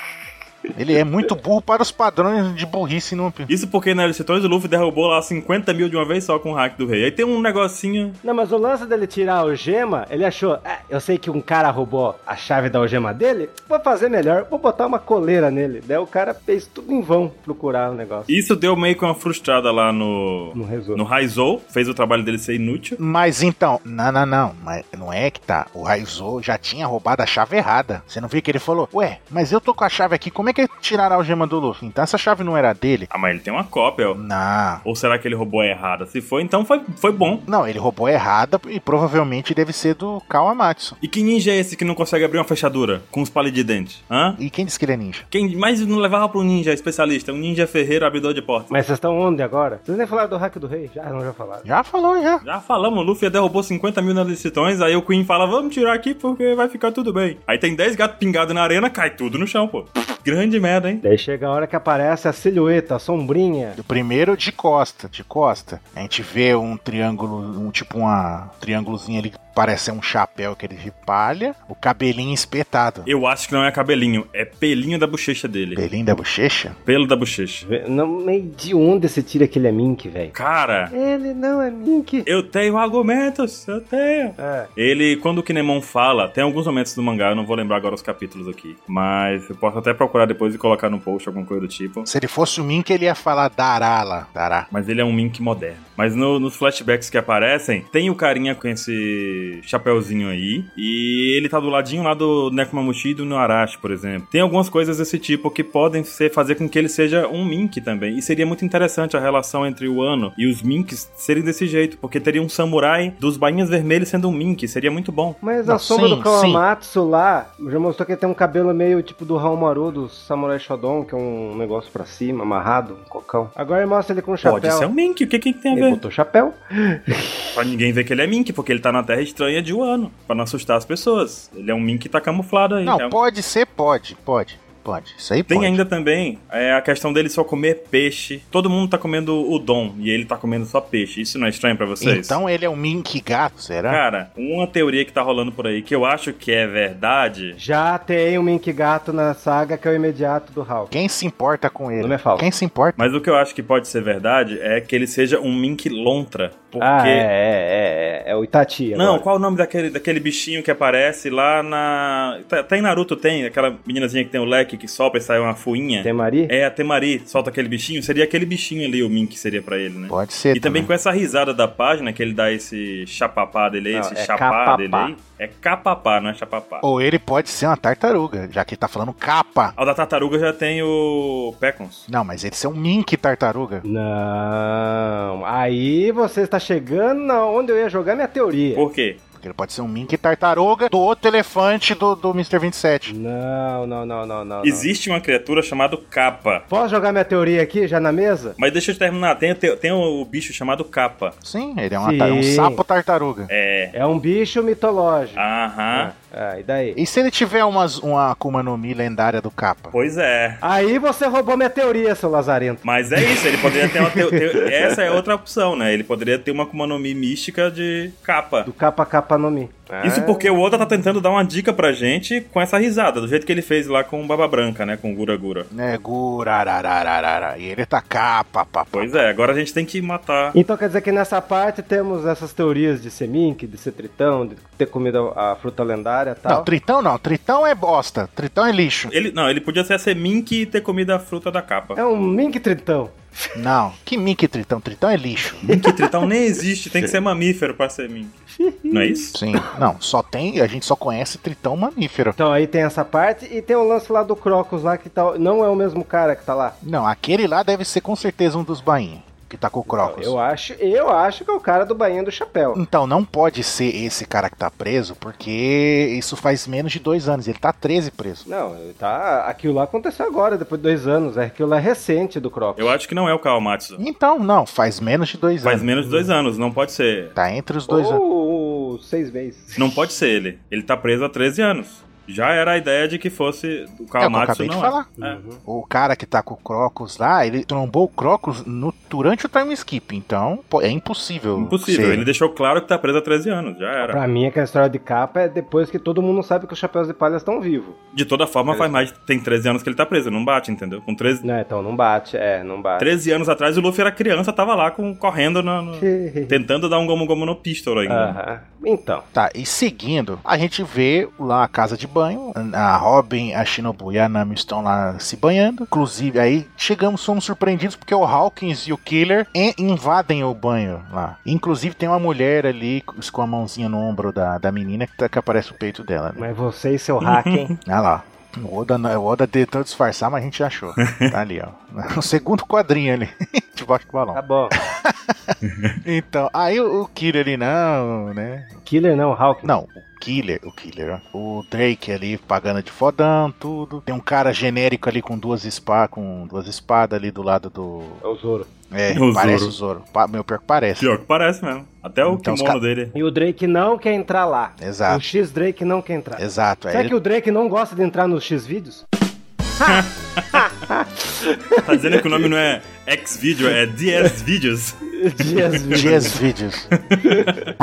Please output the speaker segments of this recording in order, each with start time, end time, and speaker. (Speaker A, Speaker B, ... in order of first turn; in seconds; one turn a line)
Speaker A: 0.7-3.5
Speaker B: 3.5-8.2
Speaker C: 8.2-18.3
Speaker B: 18.3-23.0
Speaker C: 20.5-21.0
Speaker A: 23.0-33.1
Speaker B: 33.1-34.2
Speaker A: 34.1-34.8
Speaker B: 34.8-37.5
Speaker A: 37.5-41.0
Speaker B: 41.0-44.4
Speaker A: 44.4-45.2
Speaker B: 45.3-48.7
Speaker C: 48.7-51.7
Speaker A: 51.6-52.4
Speaker B: 52.4-61.0
Speaker C: 61.0-63.8
Speaker A: 63.8-73.1
Speaker B: 73.0-75.8
Speaker A: 75.7-76.7
Speaker B: 76.8-77.6
Speaker C: 77.6-80.3
Speaker B: 80.3-80.9
Speaker C: 80.9-82.3
Speaker B: 82.2-92.1
Speaker C: 84.4-84.7
Speaker A: 92.0-94.7
Speaker B: 94.7-115.4
Speaker C: 115.4-124.9
Speaker A: 115.6-116.6
Speaker B: 124.4-126.0
Speaker C: 125.7-127.6
Speaker B: 127.5-133.2
Speaker A: 132.8-135.8
Speaker B: 135.5-142.4
Speaker A: 142.0-144.0
Speaker B: 143.9-147.6
Speaker C: 147.6-150.9
Speaker A: 150.9-153.0
Speaker C: 152.0-152.5
Speaker B: 153.0-157.3
Speaker C: 156.8-159.2
Speaker B: 158.9-176.8
Speaker C: 166.0-166.5
Speaker A: 170.1-170.9
Speaker C: 173.9-175.2
Speaker A: 176.8-179.7
Speaker B: 179.8-182.1
Speaker A: 182.1-183.8
Speaker C: 183.8-188.8
Speaker B: 188.7-189.2
Speaker A: 189.4-193.1
Speaker C: 193.1-194.9
Speaker B: 194.6-196.7
Speaker C: 196.7-198.6
Speaker B: 198.6-201.3
Speaker A: 201.4-203.5
Speaker C: 202.0-202.8
Speaker B: 203.5-203.9
Speaker C: 203.9-207.0
Speaker B: 205.3-206.1
Speaker A: 206.9-209.9
Speaker B: 209.9-210.6
Speaker C: 210.6-215.2
Speaker B: 212.8-218.7
Speaker C: 218.6-220.6
Speaker B: 220.0-225.7
Speaker A: 225.7-229.2
Speaker B: 228.9-230.6
Speaker C: 230.5-236.7
Speaker A: 236.5-239.1
Speaker B: 239.1-242.0
Speaker C: 241.9-243.6
Speaker A: 243.5-245.8
Speaker C: 245.6-246.3
Speaker B: 245.7-248.3
Speaker C: 248.6-249.7
Speaker B: 248.9-249.4
Speaker A: 249.3-252.4
Speaker C: 252.4-256.8
Speaker A: 256.8-260.3
Speaker C: 259.9-262.8
Speaker A: 262.7-268.4
Speaker C: 268.4-273.0
Speaker B: 272.8-274.0
Speaker A: 274.0-275.9
Speaker B: 275.6-277.3
Speaker C: 276.0-276.3
Speaker A: 277.4-278.2
Speaker C: 277.9-280.1
Speaker B: 279.8-285.4
Speaker A: 284.2-285.1
Speaker C: 285.2-285.6
Speaker A: 285.6-292.3
Speaker B: 291.6-294.2
Speaker C: 294.0-298.0
Speaker B: 298.1-301.4
Speaker C: 298.7-299.0
Speaker C: 301.4-303.1
Speaker B: 303.0-308.4
Speaker C: 306.0-306.6
Speaker C: 308.1-309.2
Speaker A: 309.3-326.4
Speaker C: 326.4-327.7
Speaker B: 327.2-327.7
Speaker A: 327.9-338.8
Speaker B: 331.0-331.3
Speaker C: 334.3-334.7
Speaker B: 335.7-336.0
Speaker C: 338.8-339.7
Speaker A: 339.6-348.2
Speaker C: 348.2-348.7
Speaker A: 348.9-351.1
Speaker B: 349.1-349.7
Speaker B: 351.0-353.1
Speaker A: 352.2-352.8
Speaker C: 353.1-359.0
Speaker A: 354.8-355.2
Speaker A: 356.4-357.1
Speaker C: 359.8-362.5
Speaker B: 359.8-360.7
Speaker B: 361.8-366.3
Speaker C: 365.1-366.4
Speaker A: 365.9-366.9
Speaker B: 366.9-367.5
Speaker C: 367.2-367.7